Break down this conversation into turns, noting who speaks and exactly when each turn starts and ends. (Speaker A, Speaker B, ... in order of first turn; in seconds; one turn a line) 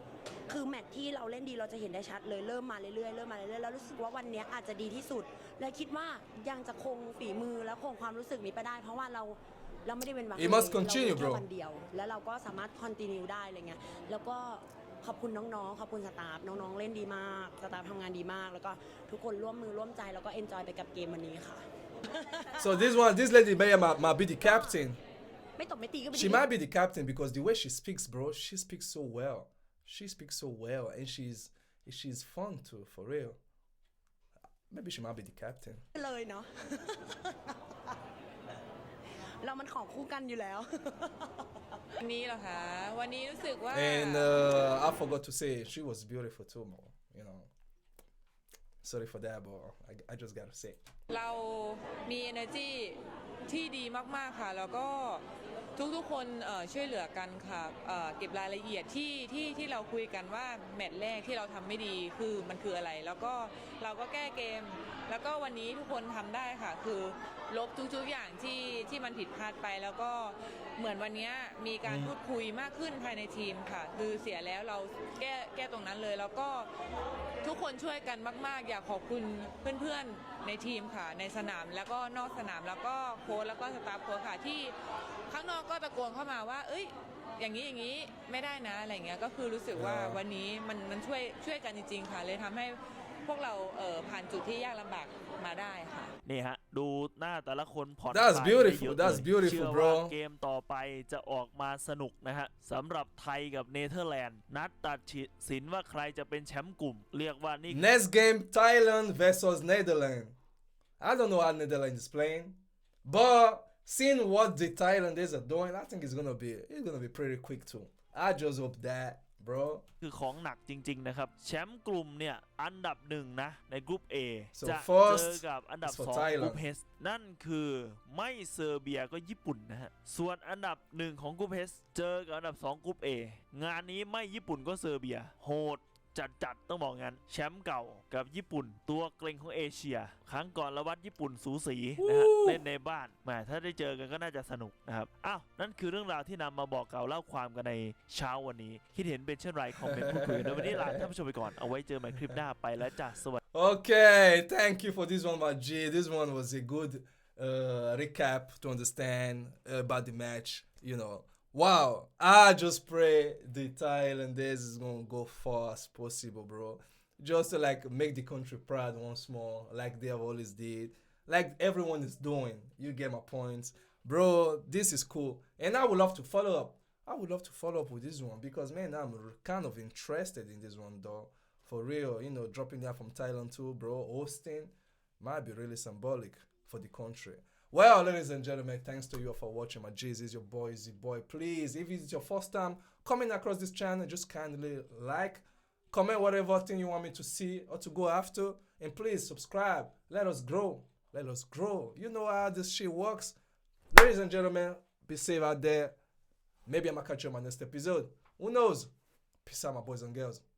Speaker A: 0.5-22.8
Speaker B: 10.3-11.4
Speaker B: 22.6-25.0
Speaker A: 24.4-24.8
Speaker A: 25.6-26.4
Speaker B: 26.1-33.4
Speaker B: 34.7-35.8
Speaker A: 35.9-37.5
Speaker A: 39.4-41.9
Speaker C: 42.0-44.4
Speaker B: 43.7-47.5
Speaker B: 48.8-50.8
Speaker C: 51.1-55.2
Speaker C: 55.8-76.7
Speaker B: 71.8-72.1
Speaker C: 77.4-84.7
Speaker C: 85.3-96.1
Speaker B: 89.7-90.2
Speaker D: 96.2-107.8
Speaker B: 98.1-100.1
Speaker B: 107.7-110.3
Speaker B: 111.0-112.5
Speaker B: 113.0-119.8
Speaker D: 120.0-153.4
Speaker B: 124.5-126.6
Speaker B: 142.0-142.6
Speaker B: 149.8-151.1
Speaker B: 153.5-203.3
Speaker B: 203.9-205.9
Speaker B: 206.7-208.9
Speaker B: 209.4-210.4